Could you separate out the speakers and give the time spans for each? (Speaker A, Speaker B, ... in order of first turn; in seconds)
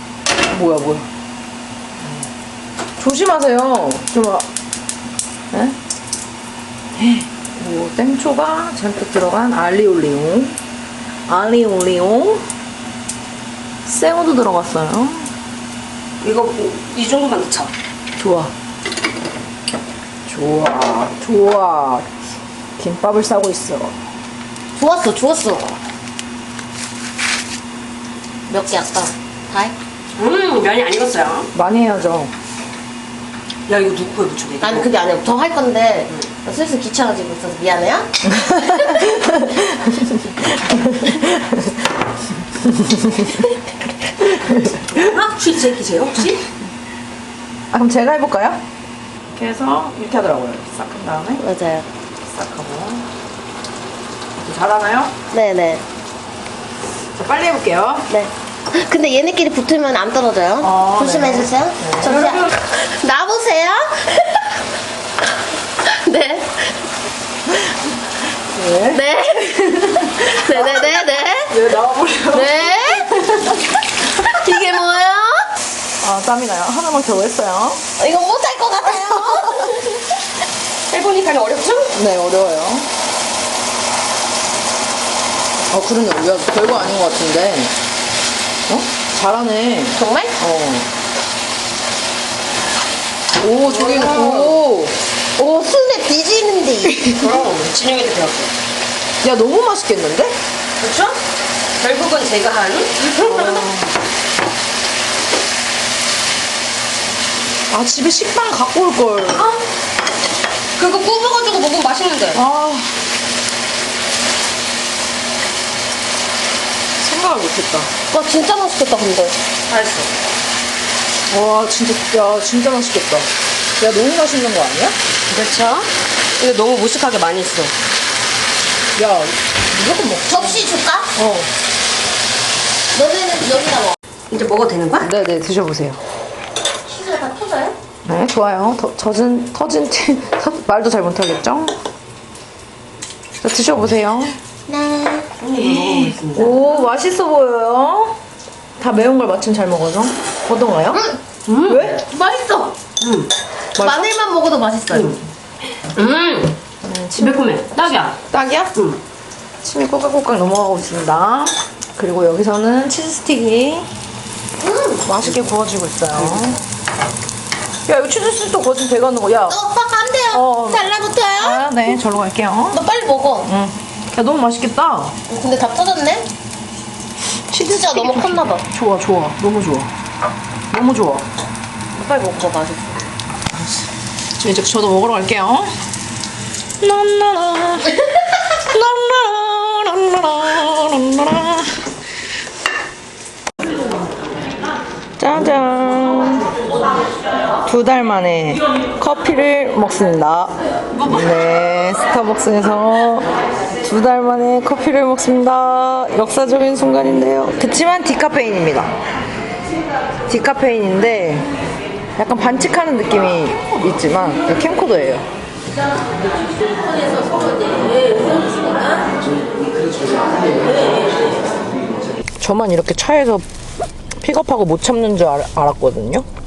Speaker A: 0.5-1.1, 3.0-4.5, 5.5-5.8, 7.0-10.6, 11.3-12.4, 13.9-15.3, 18.2-18.5, 20.3-22.1, 22.8-24.0, 31.5-32.3, 38.2-41.9, 42.6-43.5, 44.2-45.1, 47.7-48.6, 49.3-51.4, 52.2-53.1, 54.4-55.1, 57.2-58.1, 60.6-62.5, 68.5-70.8, 71.5-73.6, 76.0-77.8, 81.9-82.9, 85.7-87.7, 88.7-90.9, 93.4-95.0, 96.9-97.2, 99.2-100.3, 103.2-103.9, 107.7-109.5, 112.3-112.9, 117.0-117.9, 121.3-125.0, 129.0-130.6, 131.2-131.5, 135.0-136.0, 138.1-141.8, 143.4-144.4, 145.6-148.2, 148.8-152.0, 156.8-158.7, 159.6-163.9, 165.1-166.6, 167.9-169.6, 170.3-170.9, 171.4-172.8, 173.4-175.2, 177.5-179.9, 180.7-181.3, 184.4-185.7, 186.8-188.0, 188.6-191.8, 195.2-196.5, 197.7-203.3, 203.8-208.9, 210.3-211.5, 212.2-215.3, 222.4-223.5, 224.2-226.3
Speaker B: 16.2-17.7, 30.2-31.5, 33.7-34.9, 44.9-46.5, 80.9-81.9, 93.7-94.6, 97.2-98.5, 100.8-101.2, 101.8-103.7, 110.8-112.4, 119.7-120.1, 125.3-127.7, 134.3-135.1, 145.4-146.7, 151.5-151.9, 153.0-153.3, 154.9-155.2, 155.9-156.6, 157.2-158.2
Speaker C: 24.8-25.8, 28.5-29.8, 34.6-38.1, 38.7-39.1, 51.4-51.9, 55.3-55.8, 58.1-64.6, 65.8-66.9, 68.9-71.6, 72.3-73.1, 74.1-75.5, 78.0-79.8, 90.0-90.3, 95.4-97.1, 118.1-119.4, 130.3-131.1, 132.9-134.0, 136.9-137.8, 144.7-145.3, 152.0-152.8, 153.8-155.2, 164.6-165.0, 169.5-171.8, 172.7-173.5, 175.3-176.3, 177.7-178.6, 181.9-183.0